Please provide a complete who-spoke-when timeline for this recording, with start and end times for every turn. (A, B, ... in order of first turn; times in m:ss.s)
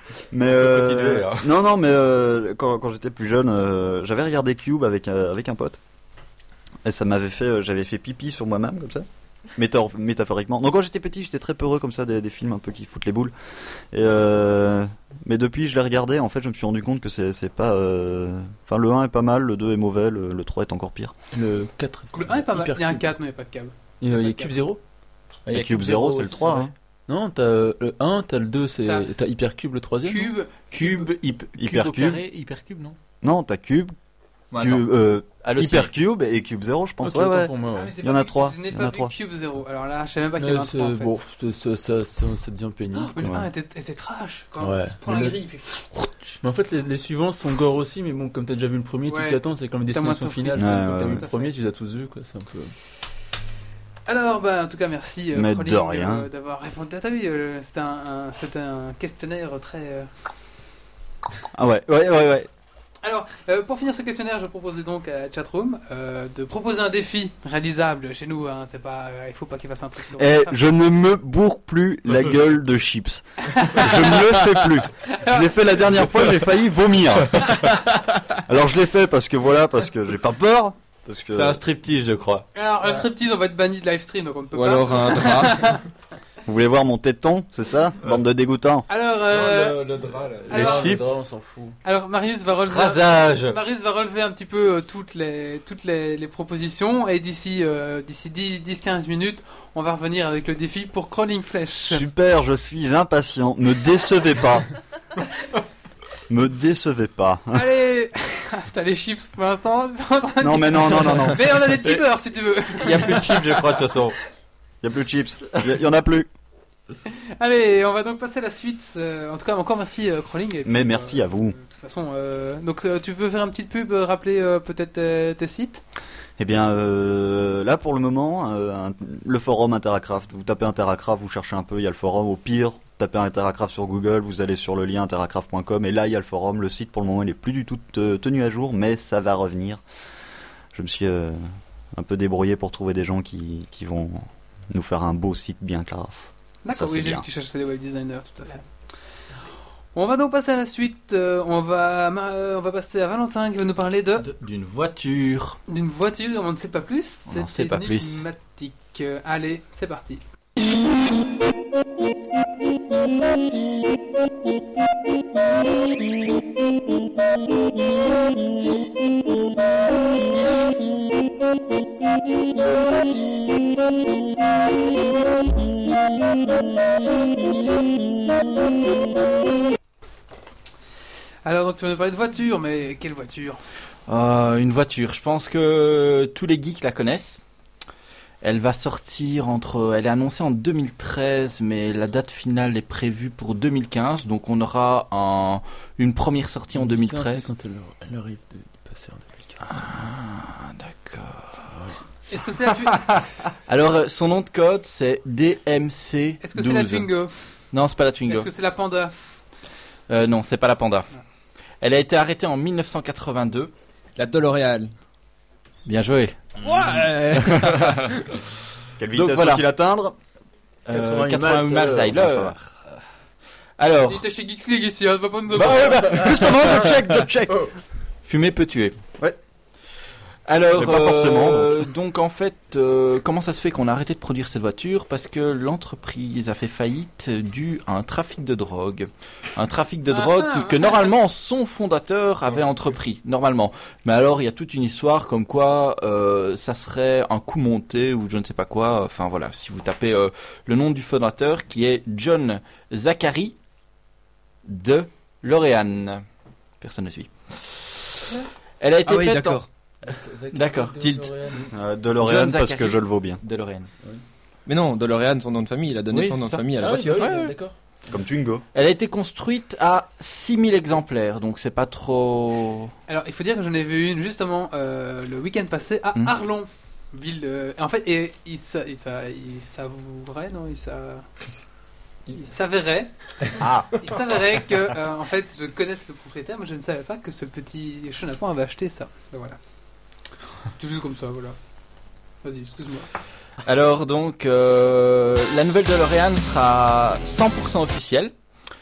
0:00.3-0:05.8 A
0:00.5-0:01.5 B
0:06.8-0:13.3 A
0:13.9-0:21.1 A
0:21.3-0:23.1 C
0:22.1-0:24.5 D
0:24.0-0:24.8 C
0:25.4-0:26.7 B
0:25.5-0:26.7 A
0:27.1-0:30.3 C
0:30.0-0:31.1 D
0:30.7-0:33.0 B
0:31.6-0:32.2 A
0:33.2-0:33.9 A
0:34.5-0:34.9 B
0:34.6-0:39.1 A
0:35.4-0:35.9 B
0:37.0-0:37.9 C
0:37.7-0:41.1 D
0:40.4-0:43.2 C
0:43.0-0:45.8 D
0:44.6-0:45.4 C
0:46.0-0:46.3 B
0:46.4-0:52.7 C
0:49.1-0:51.5 D
0:50.6-0:51.2 A
0:54.1-1:00.1 D
0:55.3-0:56.3 A
1:01.6-1:02.5 A
1:03.0-1:10.6 D
1:10.2-1:17.6 A
1:13.4-1:14.4 D
1:15.0-1:15.7 D
1:18.4-1:21.6 A
1:21.3-1:22.4 B
1:22.6-1:25.8 D
1:24.5-1:25.8 E
1:26.4-1:28.9 A
1:28.9-1:29.9 D
1:29.3-1:30.8 E
1:30.5-1:31.0 D
1:30.5-1:31.8 C
1:30.5-1:31.2 B
1:31.8-1:42.0 D
1:32.6-1:33.6 B
1:41.9-1:44.7 A
1:46.3-1:47.7 A
1:47.5-1:53.4 D
1:50.4-1:51.6 A
1:52.7-1:54.1 B
1:54.8-1:56.3 A
1:57.1-2:05.8 D
2:00.6-2:01.6 A
2:06.4-2:19.8 A
2:20.7-2:27.2 A
2:26.6-2:28.6 D
2:30.0-2:34.3 D
2:34.2-2:35.6 B
2:35.7-2:40.2 D
2:37.3-2:38.2 B
3:01.4-3:03.6 D
3:04.1-3:07.4 B
3:08.4-3:17.4 B
3:16.7-3:19.9 C
3:19.6-3:21.9 B
3:22.3-3:23.1 D
3:23.7-3:27.1 B
3:26.4-3:27.3 D
3:27.7-3:28.5 B
3:28.3-3:29.1 D
3:30.1-3:31.1 B
3:31.8-3:33.7 B
3:34.2-3:34.9 E
3:35.9-3:36.5 B
3:36.6-3:38.2 E
3:37.5-3:38.0 B
3:39.0-3:40.1 A
3:39.1-3:39.6 B
3:40.9-3:42.9 B
3:40.9-3:42.2 C
3:42.2-3:42.6 A
3:43.8-3:44.2 B
3:44.0-3:46.3 D
3:45.5-3:47.5 B
3:46.1-3:47.5 A
3:48.2-3:49.0 B
3:50.4-4:13.6 B
3:50.7-3:51.9 A
4:00.1-4:01.1 D
4:14.6-4:16.2 B
4:16.8-4:18.2 B
4:18.8-4:19.6 B
4:19.0-4:19.7 E
4:20.0-4:21.6 C
4:20.5-4:21.1 B
4:21.7-4:23.4 A
4:22.2-4:23.9 B
4:24.6-4:27.2 E
4:26.1-4:27.6 B
4:26.8-4:27.8 C
4:28.1-4:28.6 A
4:28.7-4:32.9 B
4:33.1-4:41.3 D
4:42.3-4:43.1 D
4:43.6-4:43.9 A
4:44.0-4:49.6 D
4:50.7-4:51.6 D
4:52.4-4:53.1 D
4:53.6-4:58.3 B